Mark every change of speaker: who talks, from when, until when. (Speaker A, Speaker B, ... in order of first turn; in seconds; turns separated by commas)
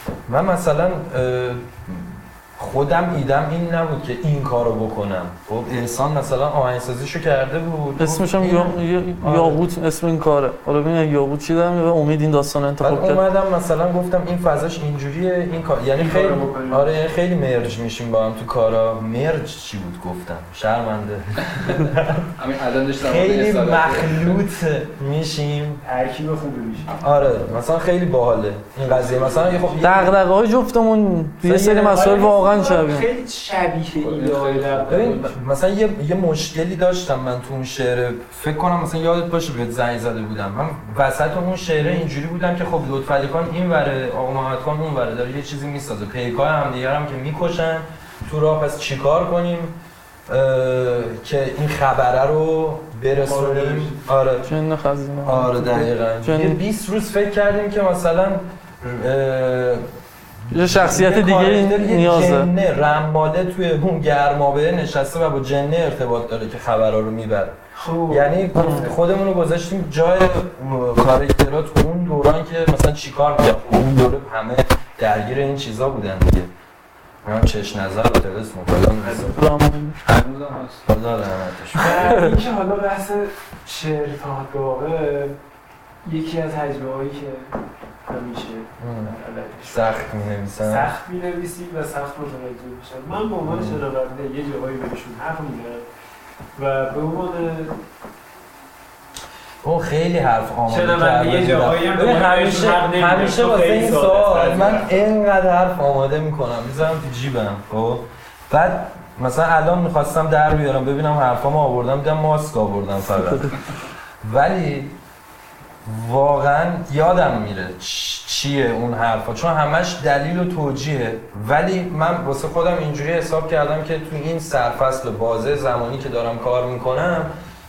Speaker A: 0.3-9.6, Speaker B: 8.0-13.2, Speaker A: 12.8-22.3, Speaker C: 15.9-17.0, Speaker D: 22.4-24.4, Speaker A: 23.0-25.8, Speaker C: 25.8-27.0, Speaker A: 26.9-30.1, Speaker D: 28.8-29.9, Speaker B: 29.8-33.1, Speaker A: 31.4-32.1, Speaker C: 31.8-35.2, Speaker D: 34.0-35.4, Speaker A: 34.9-49.8, Speaker A: 50.3-54.5, Speaker C: 53.2-54.0, Speaker B: 54.4-56.6, Speaker A: 55.2-59.8, Speaker A: 60.5-67.6, Speaker B: 60.5-62.5, Speaker C: 67.7-69.0, Speaker A: 68.1-76.5, Speaker B: 68.5-68.9, Speaker A: 77.2-79.4, Speaker C: 79.0-79.3, Speaker B: 79.3-80.0, Speaker D: 80.0-80.8, Speaker A: 80.8-82.3, Speaker C: 81.7-85.3, Speaker B: 82.0-82.3, Speaker C: 86.0-90.1, Speaker A: 88.8-90.9, Speaker C: 90.6-95.8, Speaker A: 93.4-93.8, Speaker C: 96.5-97.8, Speaker A: 99.6-113.6, Speaker C: 100.7-104.9, Speaker A: 114.2-114.9, Speaker A: 115.8-127.3